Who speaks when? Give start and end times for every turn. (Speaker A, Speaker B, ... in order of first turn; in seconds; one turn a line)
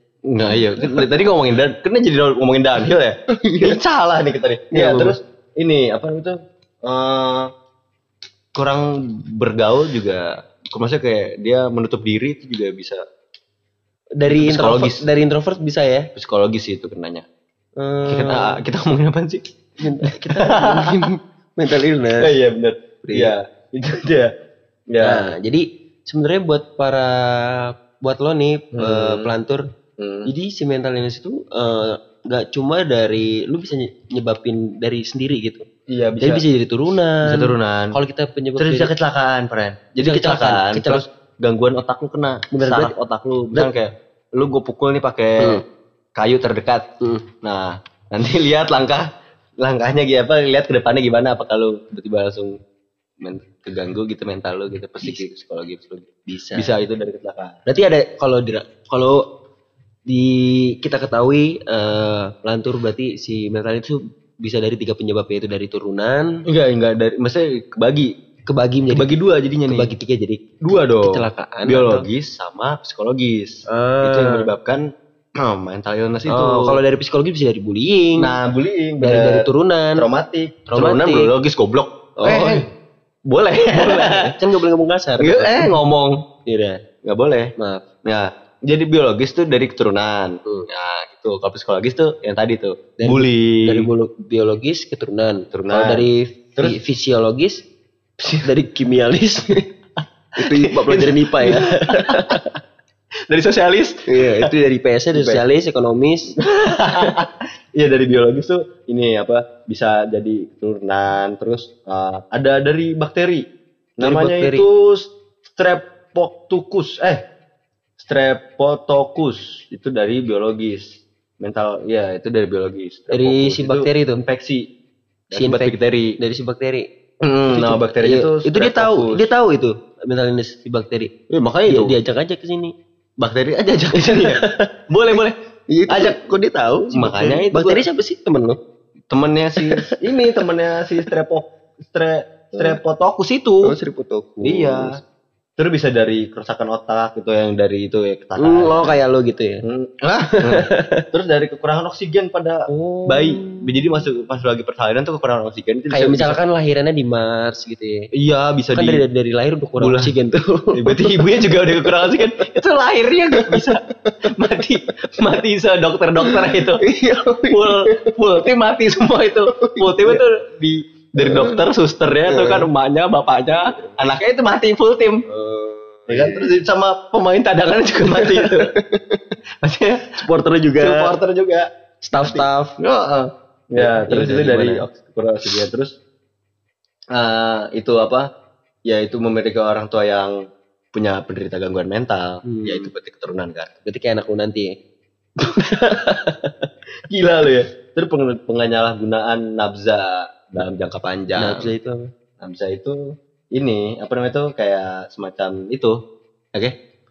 Speaker A: 0.3-7.5
Speaker B: 3.4-3.8
Speaker B: 4.7-5.2
Speaker A: 8.5-13.0
Speaker B: 14.2-16.1
Speaker A: 14.3-15.1
Speaker A: 16.1-17.2
Speaker B: 17.8-18.6
Speaker A: 18.1-19.4
Speaker B: 19.8-22.3
Speaker A: 20.0-20.9
Speaker A: 22.2-24.3
Speaker B: 23.0-23.3
Speaker A: 24.9-25.3
Speaker B: 25.0-29.6
Speaker A: 28.7-29.3
Speaker A: 30.0-30.3
Speaker B: 30.2-35.6
Speaker A: 35.9-36.4
Speaker B: 36.2-38.9
Speaker A: 37.2-37.9
Speaker A: 38.6-45.6
Speaker B: 40.0-41.0
Speaker B: 42.5-42.9
Speaker B: 45.4-45.6
Speaker A: 46.1-46.9
Speaker A: 47.4-49.1
Speaker A: 49.6-52.6
Speaker A: 53.2-57.6
Speaker B: 56.3-56.8
Speaker B: 57.7-59.2
Speaker B: 60.1-66.3
Speaker A: 66.5-68.1
Speaker B: 68.5-69.1
Speaker A: 68.9-69.9
Speaker B: 69.7-72.0
Speaker A: 70.6-74.9
Speaker B: 73.7-74.5
Speaker A: 75.4-76.8
Speaker B: 76.3-78.3
Speaker A: 78.2-82.7
Speaker B: 79.0-80.0
Speaker B: 80.7-81.3
Speaker B: 82.2-82.7
Speaker A: 83.3-84.4
Speaker B: 83.7-85.7
Speaker A: 85.2-86.2
Speaker B: 86.5-86.8
Speaker A: 87.0-87.5
Speaker B: 87.6-87.8
Speaker A: 88.0-93.9
Speaker B: 93.0-97.6
Speaker A: 95.5-96.8
Speaker A: 98.2-98.5
Speaker B: 98.4-99.7
Speaker B: 100.4-102.5
Speaker A: 100.4-102.4
Speaker A: 103.3-104.5
Speaker B: 104.1-107.2
Speaker A: 105.1-105.4
Speaker A: 106.4-113.4
Speaker A: 114.0-117.2
Speaker B: 114.0-114.6
Speaker A: 118.0-124.7
Speaker B: 123.1-124.2
Speaker A: 125.3-126.1
Speaker B: 125.3-126.8
Speaker A: 127.2-129.3
Speaker B: 127.5-131.1
Speaker A: 131.3-132.0
Speaker B: 131.7-132.7
Speaker A: 133.2-135.3
Speaker B: 133.9-135.2
Speaker B: 135.7-138.6
Speaker A: 135.9-136.3
Speaker A: 136.9-137.8
Speaker A: 139.1-143.7
Speaker B: 139.6-140.0
Speaker B: 143.6-145.0
Speaker A: 144.4-145.0
Speaker A: 145.6-149.0
Speaker B: 148.4-149.6
Speaker A: 149.6-156.4
Speaker B: 150.4-151.0
Speaker B: 152.7-154.0
Speaker B: 155.9-158.1
Speaker A: 158.2-159.0
Speaker B: 158.7-161.2
Speaker A: 159.8-160.1
Speaker A: 160.8-166.8
Speaker B: 161.8-162.2
Speaker B: 163.4-164.6
Speaker B: 166.2-168.1
Speaker A: 167.4-175.2
Speaker B: 169.5-170.2
Speaker B: 171.2-171.6
Speaker B: 172.2-172.7
Speaker B: 175.3-176.5
Speaker A: 176.1-178.7
Speaker B: 178.0-179.2
Speaker A: 179.6-181.7
Speaker B: 180.2-181.1
Speaker B: 182.0-182.7
Speaker A: 182.2-185.9
Speaker B: 183.8-184.8
Speaker A: 187.1-188.3
Speaker A: 188.9-190.3
Speaker A: 190.9-193.7
Speaker B: 192.4-192.9
Speaker B: 193.8-194.7
Speaker B: 195.5-196.7
Speaker A: 197.1-201.7
Speaker B: 201.4-202.1
Speaker A: 202.4-203.0
Speaker A: 203.5-206.0